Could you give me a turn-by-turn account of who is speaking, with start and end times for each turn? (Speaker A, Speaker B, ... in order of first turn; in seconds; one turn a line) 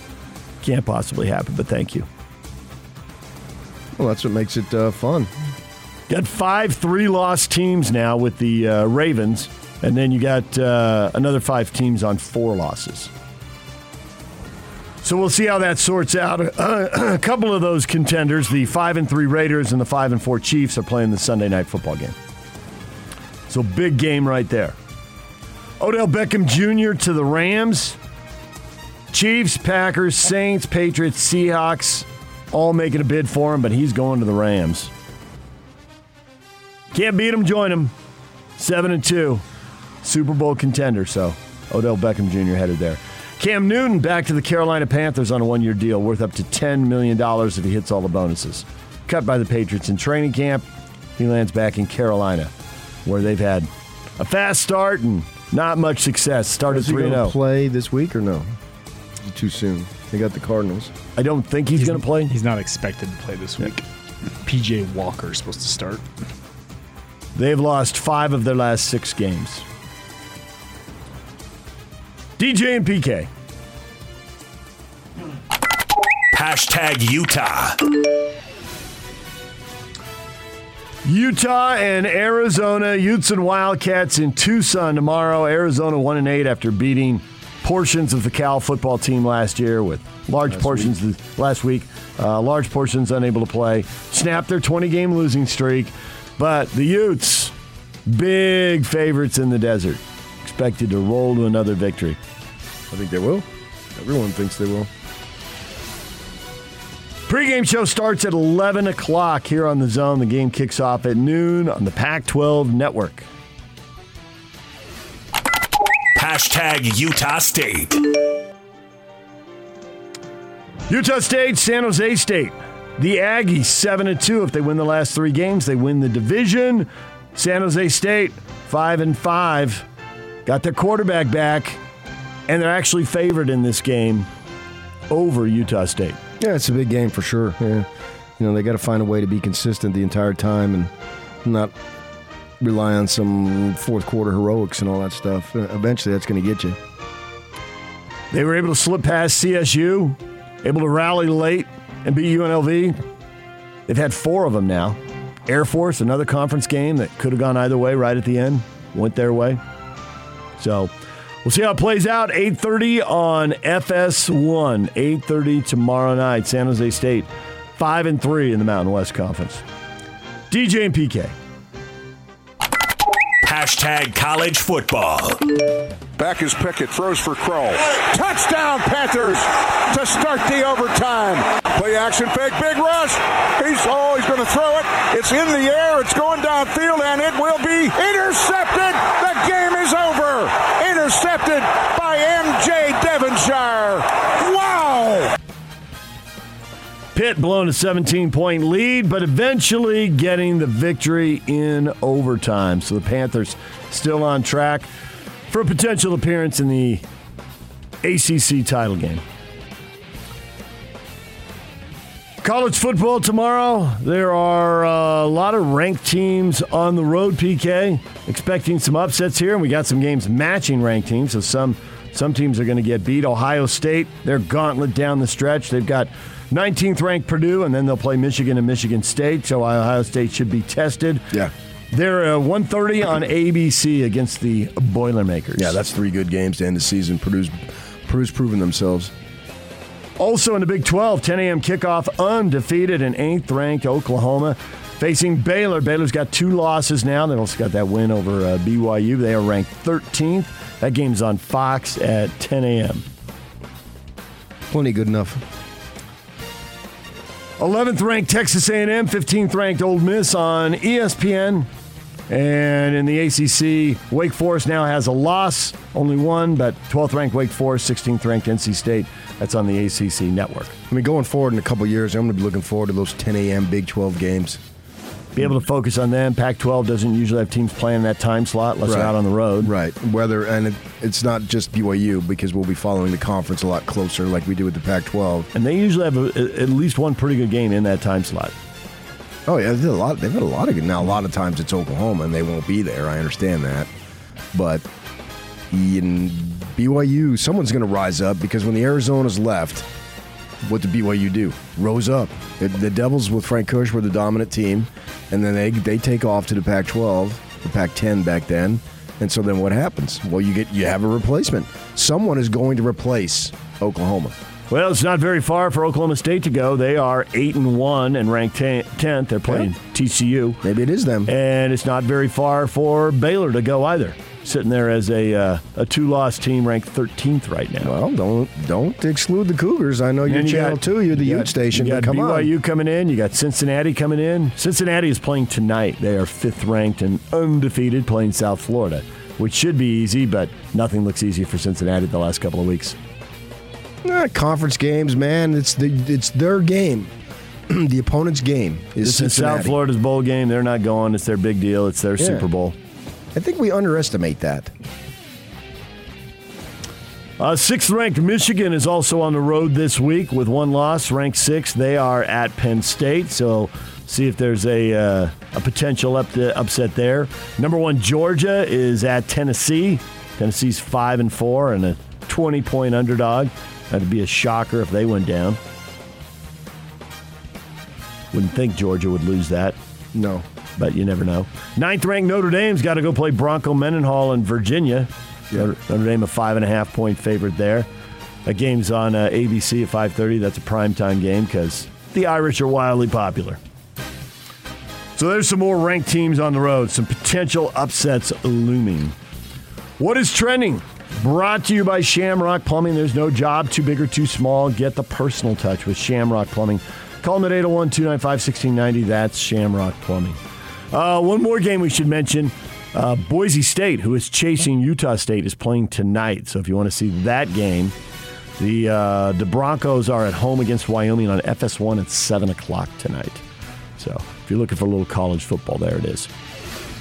Speaker A: 0.6-2.1
Speaker B: 4.0-5.3
Speaker A: 6.1-13.1
Speaker A: 15.0-22.1
Speaker A: 23.5-24.8
Speaker A: 25.8-28.0
Speaker A: 29.1-34.9
Speaker A: 36.9-37.9
Speaker A: 38.6-39.4
Speaker A: 40.0-50.6
Speaker A: 51.2-52.5
Speaker A: 53.0-57.4
Speaker B: 56.7-58.5
Speaker B: 59.2-60.9
Speaker A: 61.2-62.3
Speaker C: 61.8-63.8
Speaker C: 64.4-66.0
Speaker A: 67.3-69.6
Speaker A: 72.4-73.3
Speaker D: 76.3-77.8
Speaker A: 81.0-97.5
Speaker B: 90.5-90.9
Speaker A: 98.1-102.2
Speaker B: 102.9-104.9
Speaker A: 107.3-113.3
Speaker D: 116.2-118.0
Speaker A: 120.9-129.8
Speaker A: 130.4-131.8
Speaker A: 132.5-134.3
Speaker A: 135.1-136.2
Speaker B: 136.4-137.9
Speaker B: 138.4-140.9
Speaker B: 141.4-141.7
Speaker B: 142.6-146.8
Speaker A: 148.3-152.9
Speaker A: 153.9-159.6
Speaker A: 160.6-160.9
Speaker A: 161.4-169.6
Speaker A: 170.5-171.3
Speaker D: 173.4-175.4
Speaker E: 176.2-195.3
Speaker A: 197.1-204.9
Speaker A: 205.5-207.0
Speaker A: 208.0-209.2
Speaker A: 212.4-231.3
Speaker A: 231.9-235.8
Speaker B: 235.6-239.1
Speaker A: 240.2-253.0
Speaker B: 254.7-255.4
Speaker A: 257.6-261.7
Speaker A: 262.3-270.8
Speaker B: 270.9-274.6
Speaker A: 275.3-279.7
Speaker B: 278.8-285.5
Speaker A: 285.5-288.5
Speaker B: 289.4-293.9
Speaker B: 294.5-294.8
Speaker B: 295.7-299.9
Speaker B: 300.6-314.3
Speaker A: 314.7-320.6
Speaker B: 320.6-321.3
Speaker A: 321.3-327.9
Speaker B: 327.8-332.5
Speaker A: 330.3-343.0
Speaker B: 344.0-347.1
Speaker B: 347.7-349.8
Speaker A: 349.0-352.8
Speaker B: 352.2-352.4
Speaker B: 353.3-354.7
Speaker A: 357.4-375.6
Speaker A: 378.3-379.8
Speaker B: 380.1-380.4
Speaker A: 380.8-387.9
Speaker A: 388.4-393.6
Speaker A: 395.1-399.1
Speaker A: 400.0-410.4
Speaker A: 410.9-417.9
Speaker A: 418.6-423.4
Speaker A: 424.0-426.3